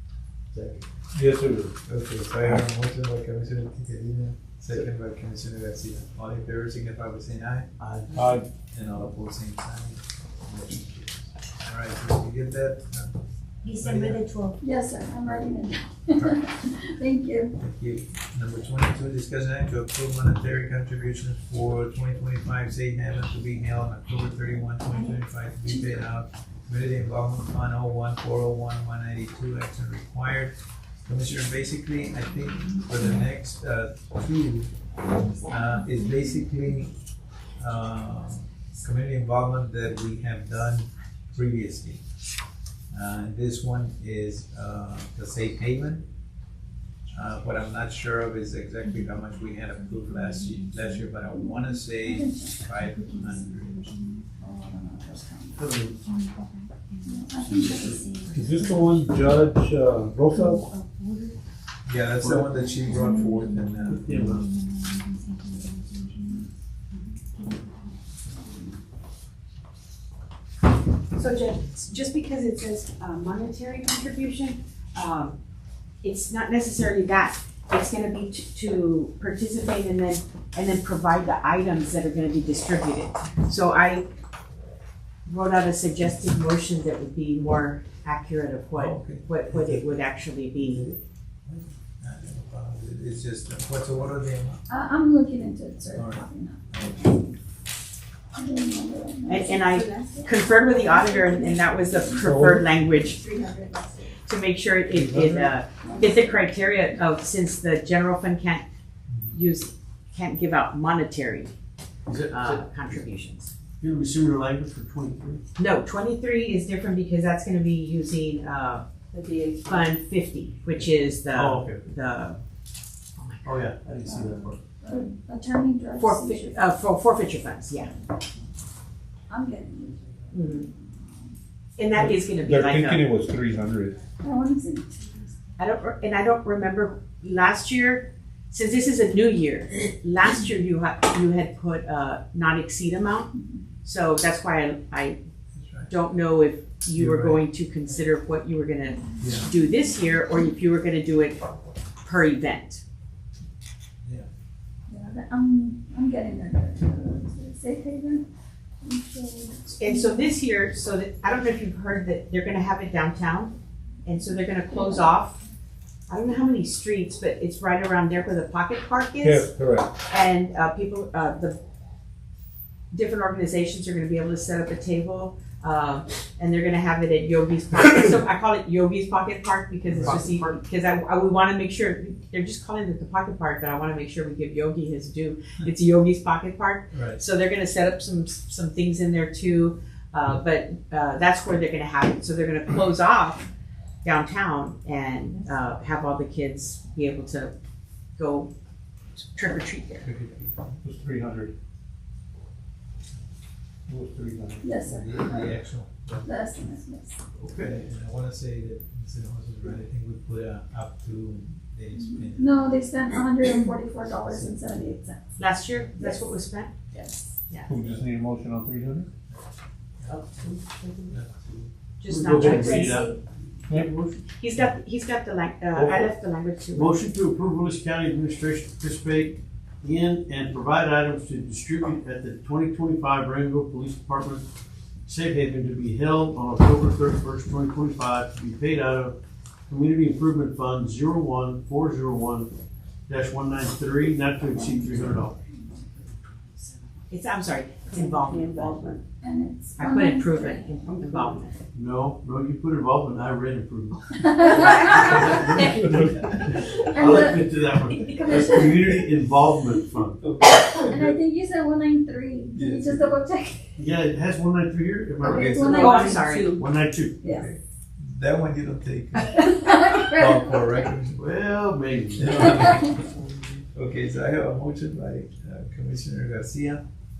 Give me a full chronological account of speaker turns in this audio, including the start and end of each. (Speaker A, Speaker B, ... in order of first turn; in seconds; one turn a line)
Speaker A: 0.5-0.8
Speaker B: 1.1-1.8
Speaker A: 1.9-7.7
Speaker C: 7.8-8.2
Speaker B: 8.1-8.4
Speaker A: 8.7-13.2
Speaker D: 13.6-14.6
Speaker A: 13.7-14.2
Speaker E: 14.6-17.5
Speaker A: 17.6-30.6
Speaker A: 31.1-34.7
Speaker A: 35.4-36.9
Speaker E: 35.5-36.0
Speaker A: 37.6-42.0
Speaker A: 42.9-46.0
Speaker A: 47.1-54.1
Speaker D: 50.3-50.7
Speaker E: 51.1-55.6
Speaker D: 53.8-54.2
Speaker C: 55.5-56.0
Speaker D: 56.0-58.4
Speaker E: 57.0-58.9
Speaker C: 57.5-58.5
Speaker B: 58.3-60.7
Speaker D: 60.3-61.4
Speaker A: 61.9-64.1
Speaker C: 62.2-62.5
Speaker E: 62.5-64.4
Speaker C: 63.9-64.4
Speaker D: 64.4-67.8
Speaker F: 71.1-75.3
Speaker F: 76.0-84.0
Speaker F: 85.2-90.8
Speaker A: 88.7-94.6
Speaker E: 94.7-97.3
Speaker A: 95.9-97.2
Speaker E: 98.3-102.3
Speaker F: 99.3-103.2
Speaker D: 99.8-100.2
Speaker B: 102.2-102.7
Speaker E: 103.1-104.2
Speaker F: 104.2-108.6
Speaker B: 104.9-105.5
Speaker E: 105.8-106.4
Speaker A: 109.1-109.4
Speaker F: 109.3-111.5
Speaker C: 112.0-113.0
Speaker F: 112.3-113.5
Speaker C: 113.8-115.4
Speaker F: 115.6-118.8
Speaker D: 119.1-119.9
Speaker F: 119.6-122.4
Speaker C: 120.8-121.8
Speaker F: 123.2-123.6
Speaker C: 123.4-124.6
Speaker E: 124.0-126.6
Speaker F: 126.0-127.9
Speaker E: 129.3-131.3
Speaker F: 130.3-130.7
Speaker F: 131.8-133.0
Speaker B: 131.9-134.0
Speaker E: 134.2-135.3
Speaker F: 135.6-143.3
Speaker F: 143.8-145.2
Speaker A: 145.5-145.9
Speaker F: 145.9-151.4
Speaker A: 146.9-147.4
Speaker A: 149.2-149.5
Speaker F: 152.0-152.8
Speaker E: 154.9-158.2
Speaker E: 158.8-160.3
Speaker F: 159.7-163.5
Speaker F: 164.0-165.4
Speaker E: 164.7-165.0
Speaker F: 166.1-169.5
Speaker B: 169.2-169.9
Speaker F: 170.1-171.6
Speaker F: 172.9-193.4
Speaker A: 179.9-180.2
Speaker C: 180.0-180.6
Speaker A: 186.9-187.2
Speaker F: 194.0-197.5
Speaker F: 198.2-198.5
Speaker F: 199.2-200.1
Speaker A: 200.0-200.8
Speaker B: 200.8-201.5
Speaker B: 203.9-204.7
Speaker E: 204.6-205.6
Speaker A: 204.8-206.2
Speaker E: 206.2-207.2
Speaker C: 207.4-207.8
Speaker A: 207.5-212.6
Speaker E: 211.9-215.4
Speaker F: 215.4-216.8
Speaker E: 216.0-216.3
Speaker E: 216.9-217.3
Speaker B: 217.7-219.1
Speaker A: 220.0-220.5
Speaker C: 220.4-224.2
Speaker A: 221.1-221.5
Speaker F: 222.0-223.1
Speaker F: 224.3-226.9
Speaker C: 225.7-226.2
Speaker C: 226.7-234.4
Speaker C: 235.1-239.2
Speaker C: 239.7-242.5
Speaker C: 243.1-245.4
Speaker E: 244.5-245.7
Speaker F: 247.1-248.9
Speaker D: 247.9-249.0
Speaker E: 249.2-250.9
Speaker F: 249.8-251.5
Speaker D: 251.0-251.3
Speaker C: 251.7-260.2
Speaker E: 254.2-255.6
Speaker F: 254.5-255.8
Speaker E: 256.4-259.9
Speaker A: 260.2-261.1
Speaker E: 260.6-263.7
Speaker A: 262.6-263.1
Speaker C: 263.8-267.2
Speaker E: 265.2-266.6
Speaker A: 265.3-265.8
Speaker F: 265.7-266.6
Speaker D: 265.8-266.5
Speaker E: 267.2-267.5
Speaker A: 267.2-271.2
Speaker E: 269.3-270.9
Speaker C: 271.2-273.6
Speaker A: 272.2-272.9
Speaker E: 272.6-272.9
Speaker A: 273.7-276.8